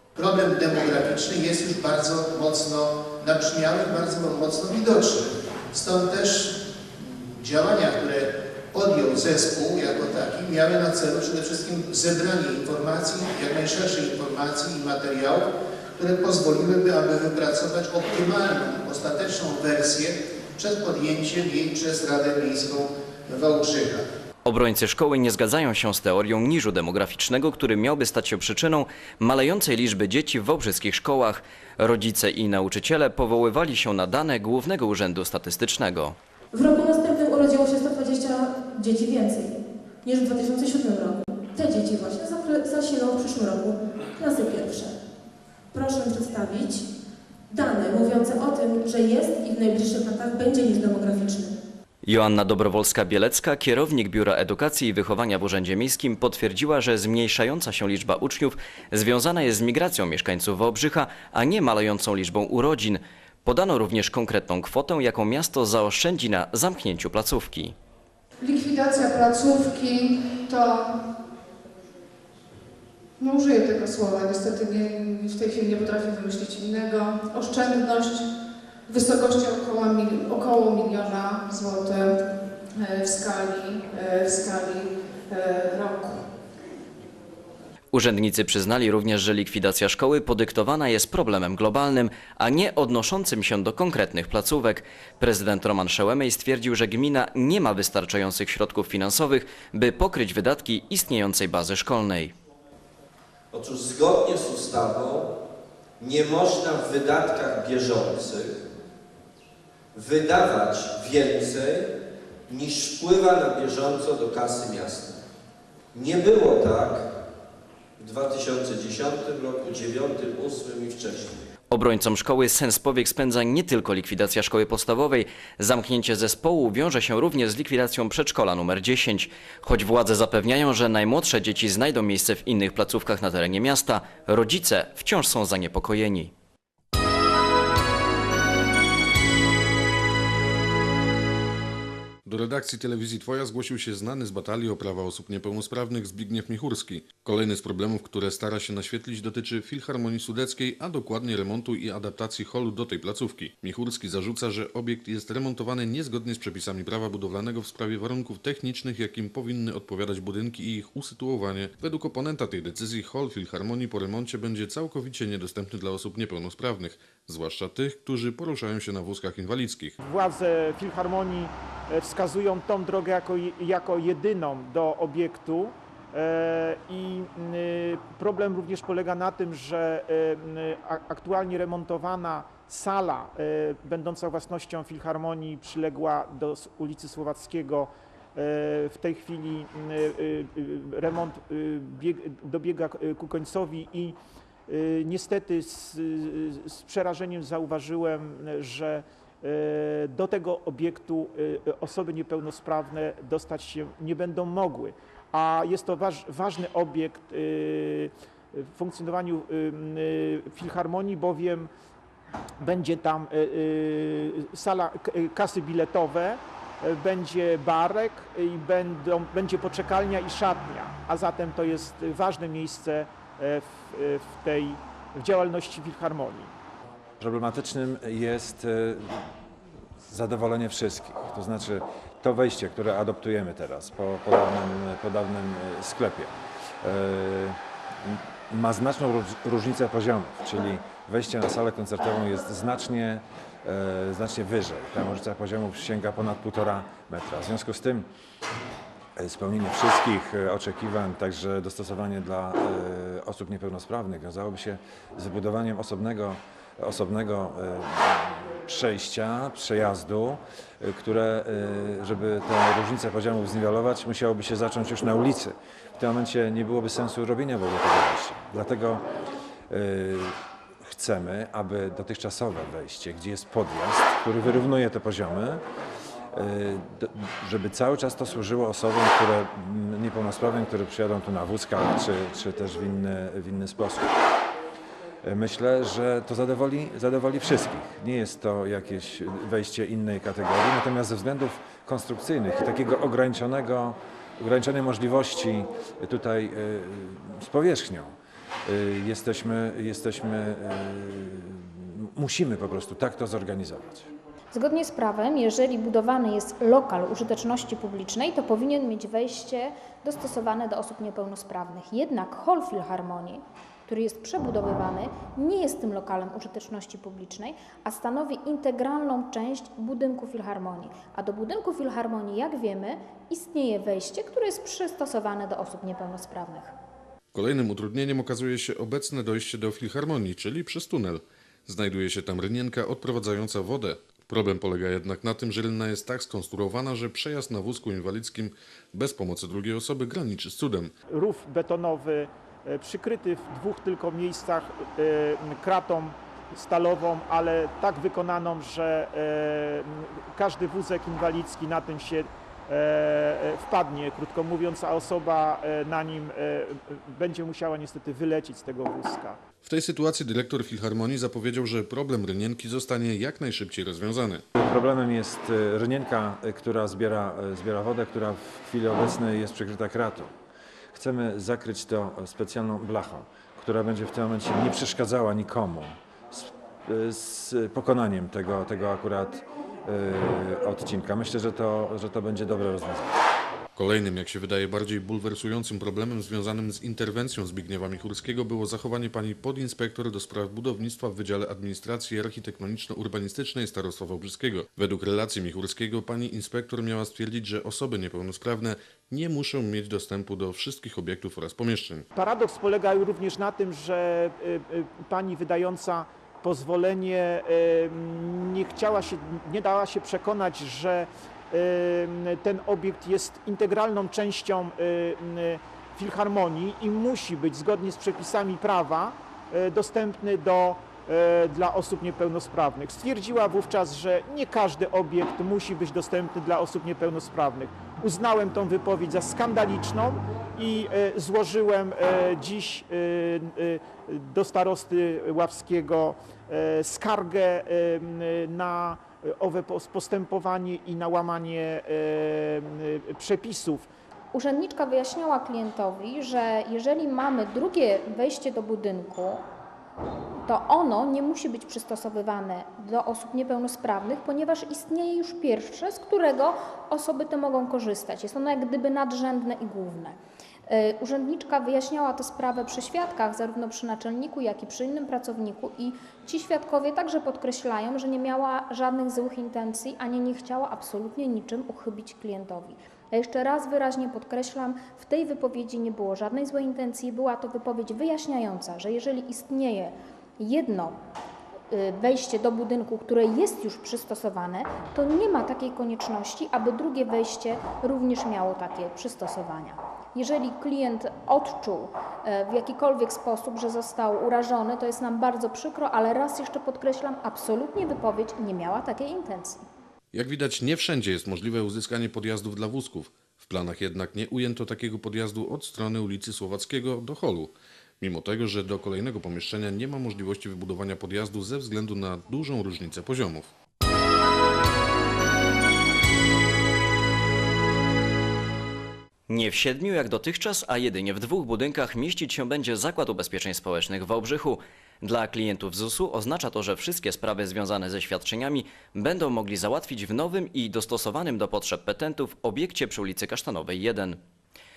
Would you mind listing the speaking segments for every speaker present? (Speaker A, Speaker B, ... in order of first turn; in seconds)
Speaker A: 0.1-24.1
Speaker B: 24.4-36.1, 52.0-67.7, 87.9-102.3, 121.7-136.3, 519.3-534.2
Speaker C: 36.5-39.5, 40.0-44.9, 45.7-46.8, 47.5-51.5
Speaker D: 68.4-71.0, 73.2-78.3, 78.9-86.2
Speaker E: 103.5-105.3, 106.0-108.6, 109.9-111.9, 112.5-115.2, 115.9-117.1, 118.0-121.5
Speaker F: 142.2-170.0, 327.3-340.9, 359.6-364.4, 383.8-402.1, 500.1-513.5
Speaker G: 170.0-211.7, 212.6-226.5, 341.1-359.4, 402.1-443.9
Speaker H: 227.2-229.3, 230.0-248.1, 249.2-269.1, 269.7-275.6, 276.3-284.2, 285.2-298.1, 298.6-304.1, 364.6-370.3, 370.9-383.1
Speaker I: 304.5-326.7, 444.3-449.4, 450.4-481.0, 481.7-499.6